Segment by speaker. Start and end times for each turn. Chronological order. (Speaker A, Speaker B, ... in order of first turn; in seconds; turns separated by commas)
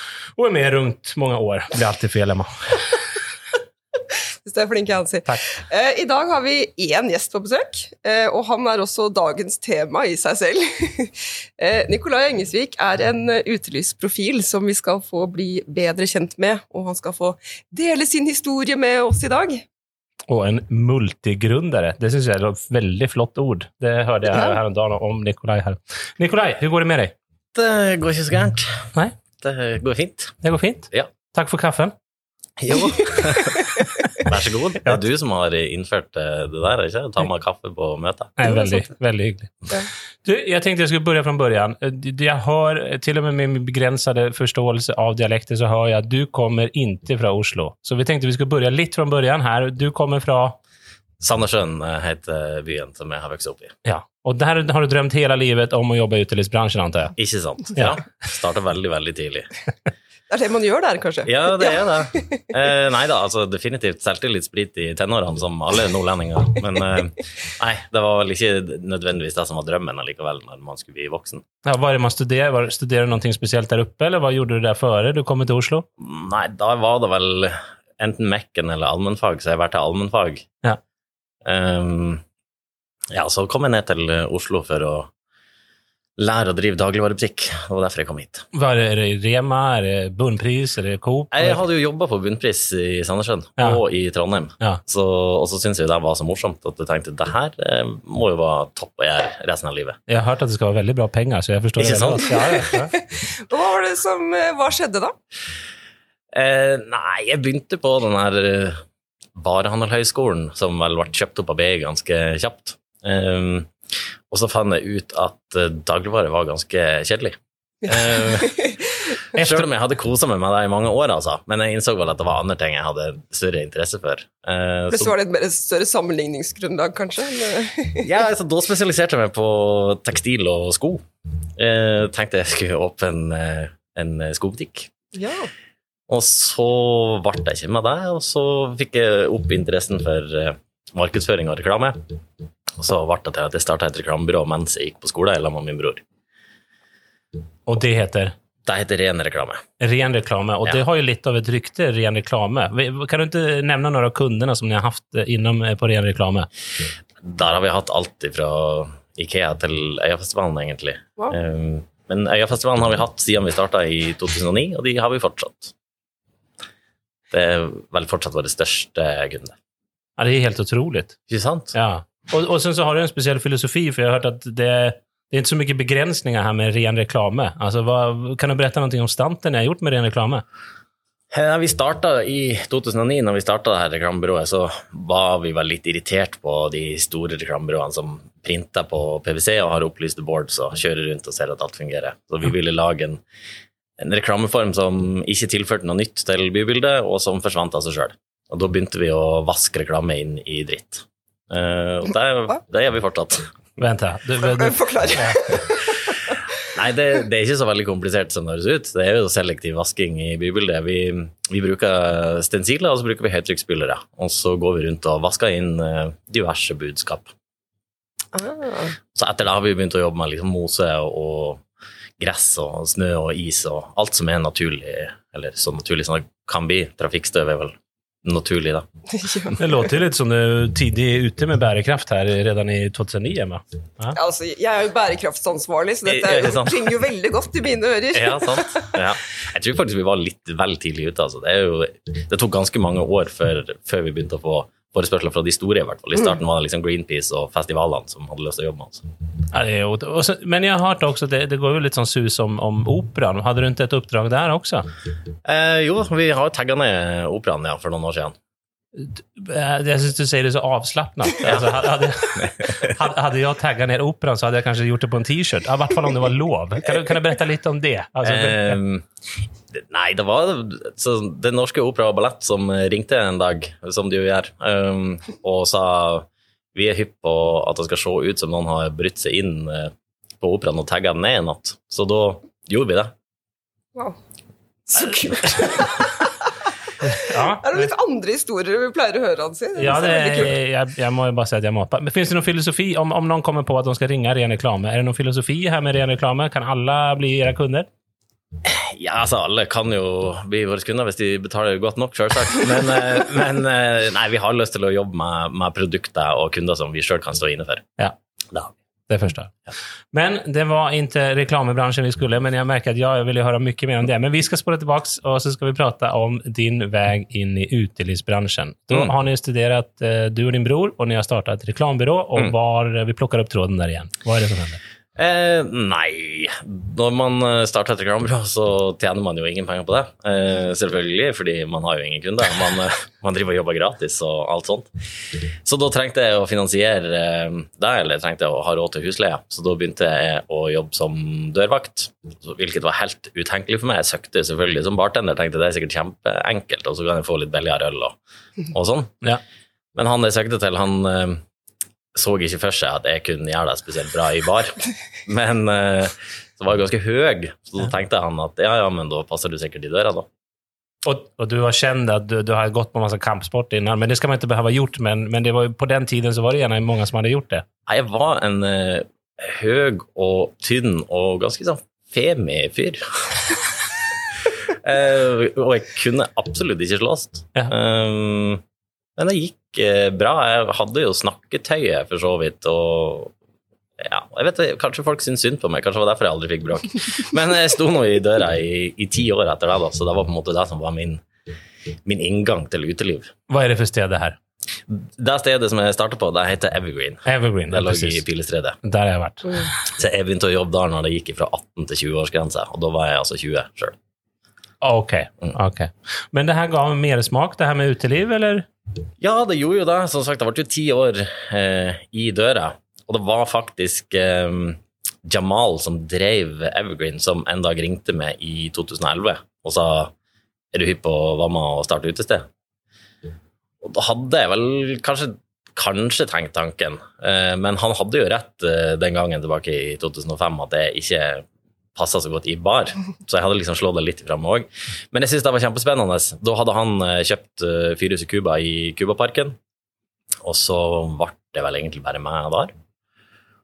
Speaker A: 0.4-3.1, Speaker B: 4.1-19.7, Speaker A: 20.3-27.1, Speaker B: 24.3-24.6, Speaker C: 27.6-30.4, Speaker A: 30.4-31.9, Speaker C: 32.6-38.4, Speaker A: 38.4-39.7, Speaker B: 38.5-38.8, Speaker A: 40.2-50.6, Speaker C: 51.2-53.8, Speaker A: 53.9-57.1, Speaker C: 57.2-59.5, Speaker B: 60.3-62.4, Speaker C: 61.3-71.5, Speaker A: 71.7-75.9, Speaker C: 76.0-80.5, Speaker C: 81.5-82.2, Speaker C: 83.1-85.1, Speaker C: 86.2-88.5, Speaker A: 88.5-91.6, Speaker C: 91.3-100.0, Speaker A: 100.1-102.9, Speaker C: 101.8-102.6, Speaker B: 102.3-105.2, Speaker C: 106.3-108.8, Speaker C: 109.3-113.7, Speaker C: 114.3-118.7, Speaker B: 117.9-118.9, Speaker C: 119.3-125.1, Speaker A: 119.4-119.6, Speaker B: 124.9-128.1, Speaker C: 128.0-131.0, Speaker C: 131.6-134.9, Speaker B: 135.2-135.5, Speaker C: 136.1-142.0, Speaker C: 142.8-146.0, Speaker A: 147.7-148.3, Speaker C: 148.7-149.6, Speaker A: 149.8-156.5, Speaker C: 157.2-165.7, Speaker C: 167.3-169.6, Speaker A: 170.2-171.2, Speaker C: 171.3-171.8, Speaker A: 171.8-180.4, Speaker C: 181.3-193.2, Speaker C: 194.0-203.5, Speaker A: 203.8-205.5, Speaker B: 204.4-206.3, Speaker C: 206.6-217.3, Speaker B: 218.3-219.0, Speaker C: 219.1-221.6, Speaker C: 222.2-228.9, Speaker B: 229.1-229.6, Speaker A: 229.6-234.2, Speaker B: 234.1-238.9, Speaker C: 236.1-236.9, Speaker C: 238.1-249.1, Speaker A: 249.5-254.9, Speaker C: 255.4-258.4, Speaker A: 258.9-268.8, Speaker C: 261.4-261.7, Speaker C: 262.4-262.7, Speaker C: 268.2-269.1, Speaker C: 269.7-283.1, Speaker B: 284.9-286.6, Speaker A: 287.1-287.9, Speaker B: 287.1-290.5, Speaker A: 289.8-297.9, Speaker C: 298.6-307.9, Speaker A: 309.1-309.5, Speaker A: 310.1-324.8, Speaker C: 325.2-334.9, Speaker C: 335.6-348.2, Speaker C: 348.7-349.2, Speaker C: 349.9-351.4, Speaker C: 352.1-360.3, Speaker A: 361.0-367.6, Speaker C: 367.9-373.4, Speaker C: 374.7-378.6, Speaker C: 379.2-383.3, Speaker C: 384.0-391.2, Speaker C: 392.1-393.3, Speaker A: 393.5-394.4, Speaker C: 394.9-398.8, Speaker A: 397.3-398.2, Speaker A: 398.8-399.7, Speaker C: 399.9-404.0, Speaker A: 404.8-408.7, Speaker C: 409.2-420.1, Speaker C: 420.7-422.5, Speaker C: 423.8-439.6, Speaker C: 440.4-442.7